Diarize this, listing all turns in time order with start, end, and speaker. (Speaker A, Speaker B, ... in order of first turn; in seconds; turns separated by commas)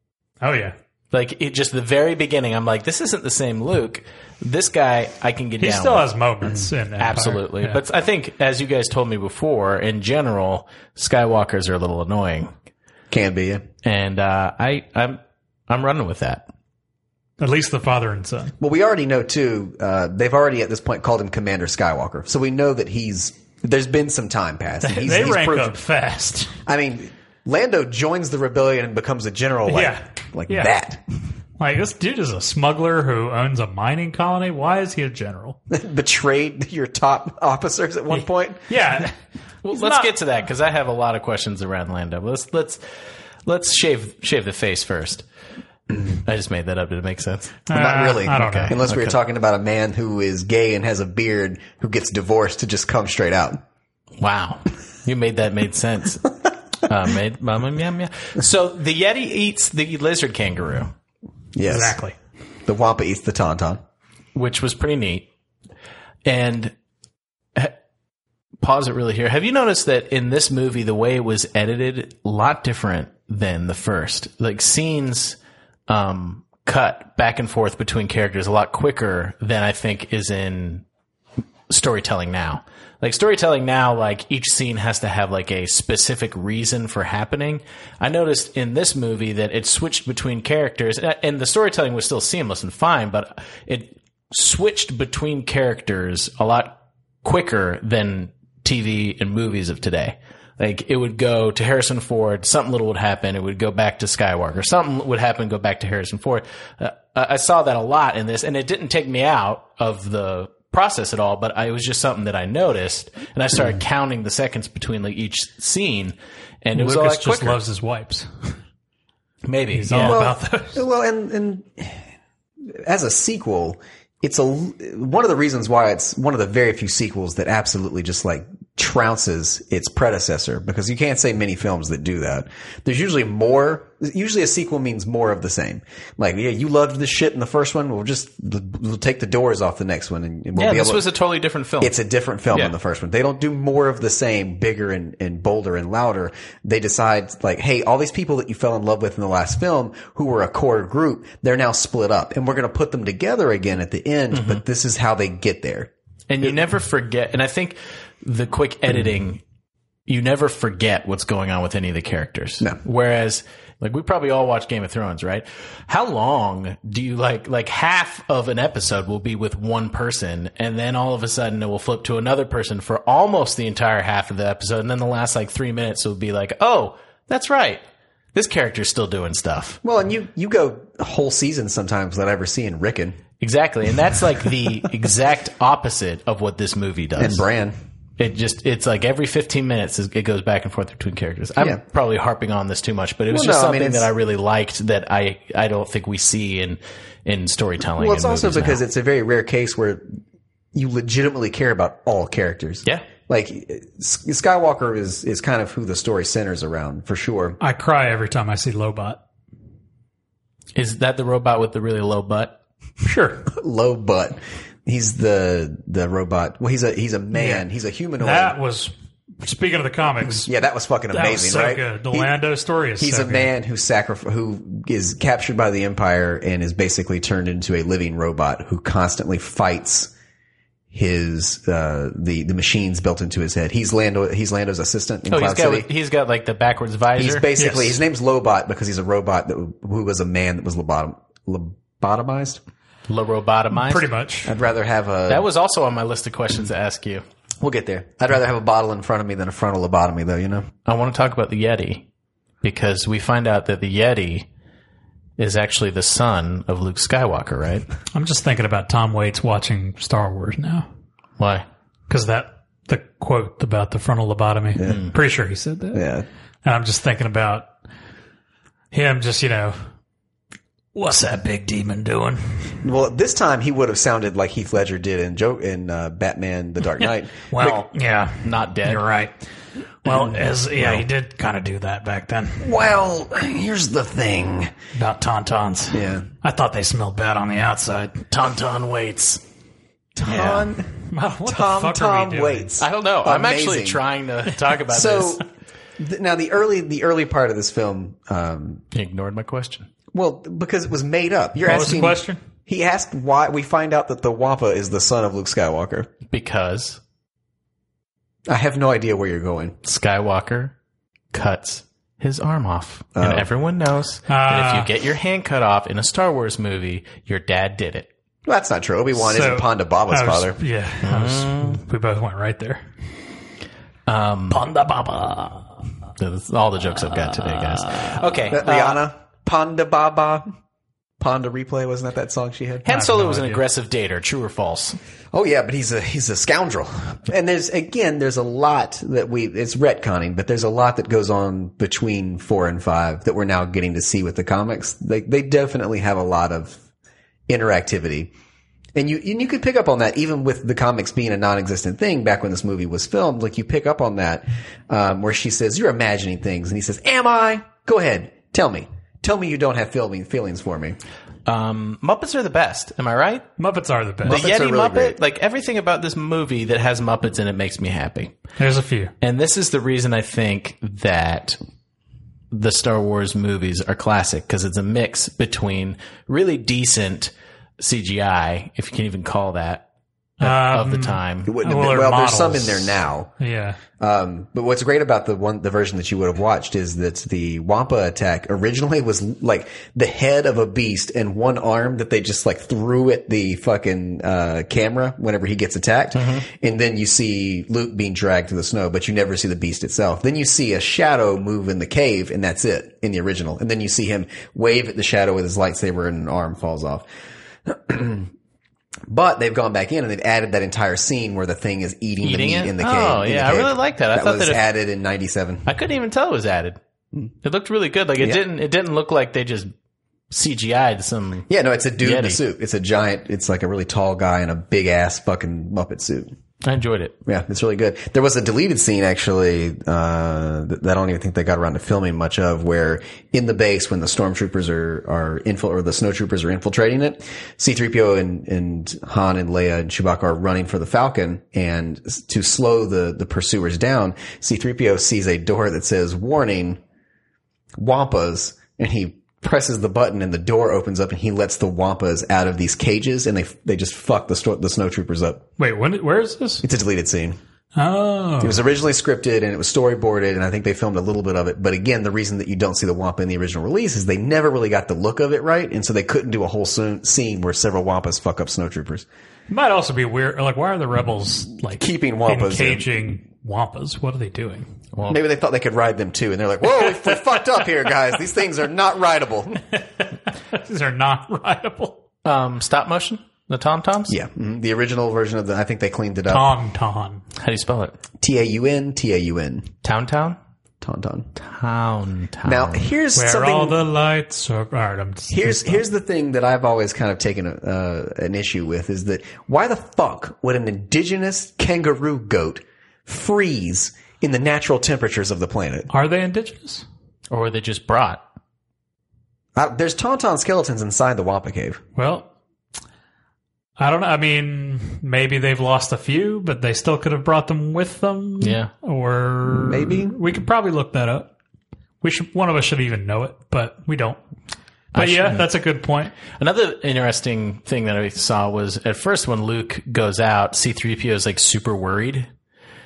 Speaker A: 0.4-0.8, Speaker B: 1.1-6.1, Speaker A: 5.6-7.8, Speaker B: 7.0-12.5, Speaker C: 13.1-13.7, Speaker B: 13.8-16.5, Speaker A: 17.4-18.6, Speaker C: 18.6-25.8, Speaker A: 24.8-26.6, Speaker C: 26.7-31.0, Speaker A: 29.7-30.7, Speaker A: 31.6-35.6, Speaker C: 35.7-38.8, Speaker A: 38.1-39.1, Speaker B: 39.6-42.8, Speaker A: 39.7-40.1, Speaker B: 43.5-45.2, Speaker B: 46.1-47.7, Speaker A: 47.7-48.8, Speaker C: 47.7-53.6, Speaker B: 48.3-49.2, Speaker B: 54.2-60.9, Speaker C: 61.5-62.0, Speaker A: 61.7-62.1, Speaker C: 62.7-63.8, Speaker B: 64.3-65.3, Speaker B: 66.2-66.7, Speaker B: 68.6-75.4, Speaker B: 75.9-80.8, Speaker B: 81.7-117.6, Speaker A: 116.8-118.6, Speaker B: 119.5-120.2, Speaker A: 119.8-120.8, Speaker C: 120.0-122.0, Speaker C: 122.7-141.1, Speaker B: 140.6-141.9, Speaker C: 141.8-155.9, Speaker B: 154.3-154.6, Speaker B: 156.3-159.4, Speaker B: 160.1-177.8, Speaker B: 178.3-179.8, Speaker C: 179.8-183.2, Speaker B: 183.4-187.4, Speaker C: 187.2-187.8, Speaker B: 188.2-198.8, Speaker C: 193.3-194.1, Speaker C: 198.0-200.1, Speaker C: 200.7-207.6, Speaker A: 207.6-209.2, Speaker B: 210.8-212.6, Speaker A: 213.0-213.5, Speaker C: 213.5-218.6, Speaker A: 217.3-217.7, Speaker A: 218.2-220.5, Speaker C: 220.4-222.3, Speaker A: 221.1-223.5, Speaker C: 223.0-230.1, Speaker C: 230.9-235.9, Speaker B: 235.3-237.5, Speaker C: 237.2-242.6, Speaker A: 237.6-238.0, Speaker B: 243.1-244.1, Speaker A: 243.7-244.5, Speaker C: 244.5-245.5, Speaker B: 245.3-247.2, Speaker C: 247.6-250.7, Speaker B: 250.8-252.1, Speaker B: 252.6-254.5, Speaker B: 255.4-257.9, Speaker A: 258.1-260.9, Speaker B: 261.4-261.6, Speaker A: 262.1-266.1, Speaker C: 264.8-265.0, Speaker C: 265.9-266.3, Speaker A: 266.6-267.7, Speaker A: 268.9-269.8, Speaker A: 270.9-272.8, Speaker C: 272.8-277.8, Speaker A: 277.0-279.4, Speaker B: 278.4-279.0, Speaker A: 280.0-282.7, Speaker B: 280.8-281.0, Speaker C: 282.6-284.7, Speaker A: 285.0-288.2, Speaker C: 285.9-286.3, Speaker B: 288.3-289.4, Speaker C: 290.2-290.9, Speaker A: 290.2-292.7, Speaker C: 291.5-294.0, Speaker B: 292.8-295.4, Speaker C: 294.9-295.4, Speaker C: 296.0-298.8, Speaker B: 298.9-299.9, Speaker C: 300.1-306.1, Speaker A: 301.6-302.4, Speaker B: 306.3-307.0, Speaker C: 308.5-309.8, Speaker B: 309.8-310.7, Speaker B: 311.3-318.1, Speaker C: 313.2-313.5, Speaker A: 314.3-314.9, Speaker C: 318.5-320.6, Speaker A: 319.2-322.8, Speaker B: 321.0-321.8, Speaker B: 324.1-324.6, Speaker A: 324.5-325.7, Speaker B: 326.2-329.0, Speaker A: 327.8-328.1, Speaker C: 328.5-330.5, Speaker C: 331.2-332.9, Speaker B: 332.9-335.0, Speaker A: 332.9-333.6, Speaker C: 335.3-346.8, Speaker C: 347.5-348.3, Speaker C: 349.0-361.0, Speaker B: 361.5-363.4, Speaker A: 363.6-364.4, Speaker C: 364.2-365.2, Speaker B: 364.3-368.3, Speaker A: 368.6-369.1, Speaker B: 369.2-371.6, Speaker B: 372.5-379.9, Speaker A: 380.4-383.8, Speaker B: 380.4-381.5, Speaker C: 381.5-383.3, Speaker C: 384.0-407.1, Speaker B: 396.2-396.4, Speaker C: 407.6-408.3, Speaker C: 409.1-415.7, Speaker B: 412.2-414.6, Speaker B: 415.7-416.8, Speaker B: 417.4-419.7, Speaker B: 420.3-421.5, Speaker C: 421.5-426.3, Speaker B: 422.0-422.4, Speaker B: 426.6-427.2, Speaker C: 427.3-446.8, Speaker C: 447.8-455.4, Speaker A: 455.6-456.6, Speaker C: 456.6-457.4, Speaker A: 457.8-458.6, Speaker C: 458.4-469.1, Speaker A: 469.5-474.7, Speaker C: 471.8-472.9, Speaker B: 474.9-475.2, Speaker C: 475.1-479.7, Speaker A: 479.8-482.0, Speaker B: 482.2-484.2, Speaker C: 484.1-486.5, Speaker A: 486.3-487.2, Speaker B: 487.4-488.0, Speaker C: 488.2-489.7, Speaker B: 489.8-490.4, Speaker C: 490.8-491.3, Speaker B: 491.4-492.9, Speaker C: 492.4-493.8, Speaker A: 493.1-495.8, Speaker C: 495.3-505.9, Speaker A: 505.9-506.9, Speaker B: 507.3-508.2, Speaker C: 509.6-511.8, Speaker A: 512.0-512.3, Speaker A: 513.8-521.3, Speaker B: 518.4-518.7, Speaker C: 519.5-520.2, Speaker A: 522.0-524.2, Speaker B: 524.9-525.5, Speaker A: 524.9-526.1, Speaker B: 526.3-532.3